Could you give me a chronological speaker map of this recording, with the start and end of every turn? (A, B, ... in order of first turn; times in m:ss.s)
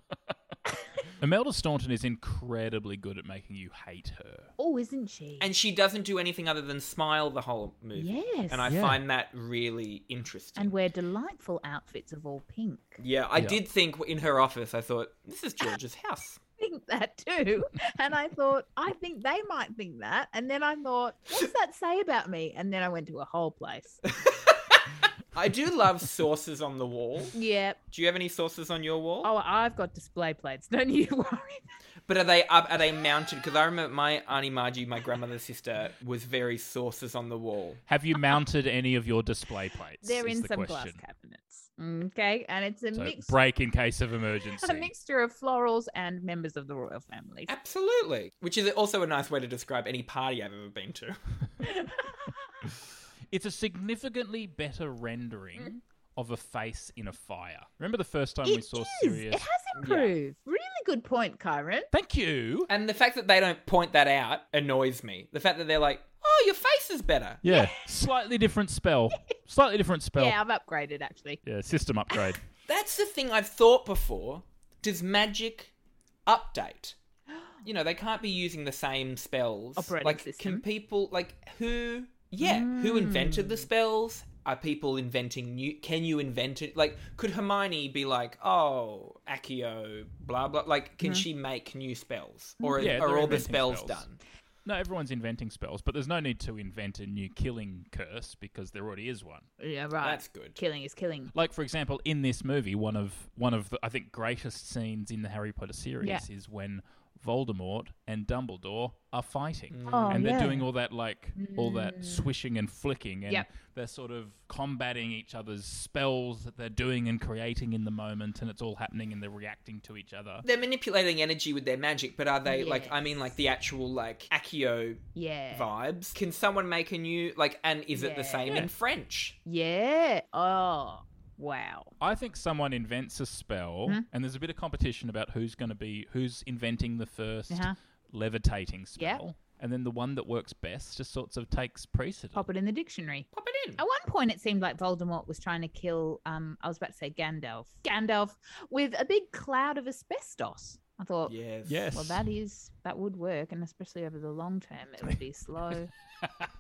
0:01.2-0:04.5 A
0:04.6-0:05.5 B
0:05.4-0:10.8 C
0:08.0-0:08.7 B
0:08.7-0:09.0 A
0:10.6-0:13.0 B
0:13.0-0:16.4 C
0:13.4-0:13.6 A
0:16.6-0:24.0 B
0:24.2-0:24.8 C
0:25.3-0:27.4 C
0:27.3-0:27.8 B
0:27.9-0:29.3 C
0:29.2-0:31.6 B
0:32.1-0:37.8 C
0:37.9-0:41.0 A
0:40.0-0:43.3 B
0:42.9-0:44.9 A
0:44.6-0:47.5 B
0:47.5-0:51.2 C
0:51.6-0:52.3 B
0:53.3-0:59.5 A
0:58.4-1:01.9 B
0:59.8-1:00.1 C
1:01.9-1:02.7 A
1:02.7-1:07.4 C
1:07.4-1:10.4 A
1:07.4-1:07.8 B
1:10.1-1:11.4 B
1:11.4-1:12.4 A
1:12.7-1:15.7 C
1:16.2-1:17.0 C
1:17.6-1:34.2 C
1:19.8-1:20.6 B
1:22.4-1:23.7 B
1:32.6-1:33.4 B
1:32.8-1:34.0 A
1:34.6-1:39.5 A
1:39.6-1:41.3 B
1:40.0-1:40.6 C
1:41.3-2:00.4 A
1:49.7-1:50.3 C
1:49.9-1:50.7 B
1:51.4-1:52.3 B
2:00.4-2:09.4 C
2:02.5-2:03.3 B
2:05.1-2:05.7 B
2:07.9-2:08.7 B
2:09.4-2:11.9 B
2:12.0-2:22.5 A
2:17.5-2:17.8 B
2:19.0-2:19.2 B
2:22.4-2:31.4 B
2:23.3-2:23.8 C
2:31.2-2:31.9 C
2:31.6-2:32.2 A
2:31.9-2:35.9 B